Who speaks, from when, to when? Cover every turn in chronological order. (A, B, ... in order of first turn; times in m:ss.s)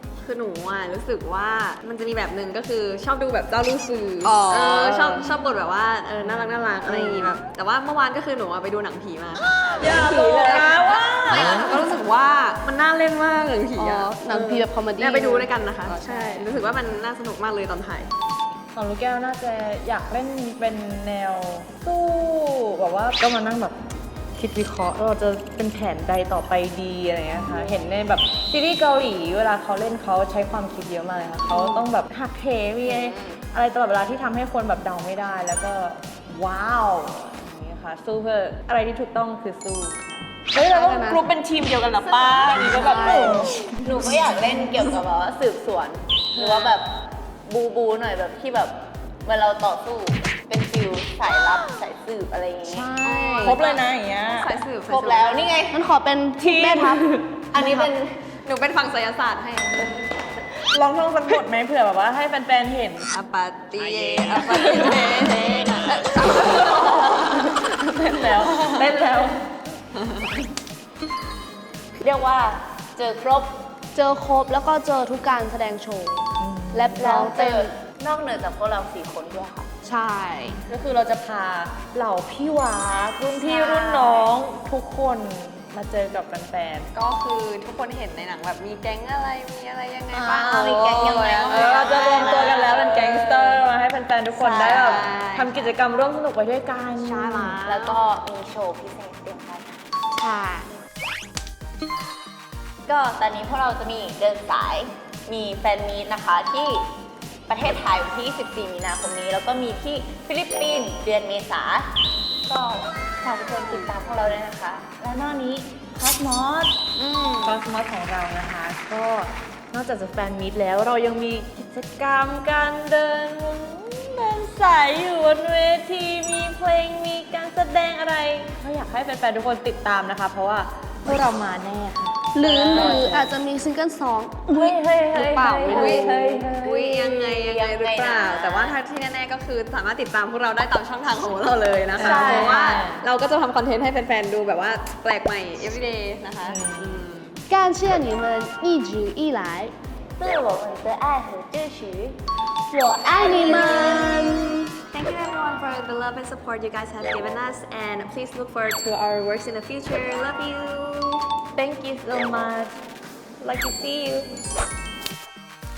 0:00.2-0:18.1 A
0:04.2-0:05.3 B
0:06.3-0:06.6 C
0:06.8-0:07.3 B
0:09.8-0:11.6 C
0:13.8-0:16.6 B
0:18.7-0:23.7 C
0:24.4-0:43.6 C
0:32.8-0:33.4 A
0:40.5-0:41.2 B
0:42.0-0:52.9 D
0:42.7-0:43.6 B
0:52.7-0:53.6 B
0:53.0-0:55.6 A
0:53.4-0:54.5 C
0:54.8-0:55.8 D
0:55.7-0:57.0 B
0:56.4-0:57.8 C
0:57.5-0:58.2 D
0:58.4-1:00.0 A
1:00.7-1:03.1 C
1:03.1-1:07.6 A
1:04.3-1:04.9 C
1:07.4-1:09.4 C
1:12.0-1:13.5 D
1:13.9-1:17.7 B
1:16.4-1:17.0 C
1:17.0-1:19.7 D
1:19.8-1:20.6 B
1:20.7-1:26.9 C
1:23.3-1:24.3 D
1:26.9-1:33.6 A
1:30.1-1:32.5 D
1:31.5-1:37.6 C
1:34.3-1:35.7 A
1:37.0-1:38.0 A
1:37.6-1:39.7 D
1:40.2-1:40.7 B
1:42.9-1:46.8 D
1:47.5-1:51.9 D
1:52.5-1:56.7 D
1:57.0-1:57.6 A
1:57.4-2:13.3 C
2:12.3-2:16.1 B
2:12.7-2:13.0 A
2:14.5-2:16.6 C
2:15.7-2:27.4 A
2:15.7-2:18.8 D
2:22.0-2:23.0 C
2:26.4-2:27.0 C
2:27.5-2:29.7 B
2:30.2-2:32.2 D
2:32.7-2:34.7 B
2:33.1-2:34.1 D
2:33.2-2:34.0 A
2:34.9-2:41.2 A
2:41.6-2:42.7 C
2:43.4-2:44.3 C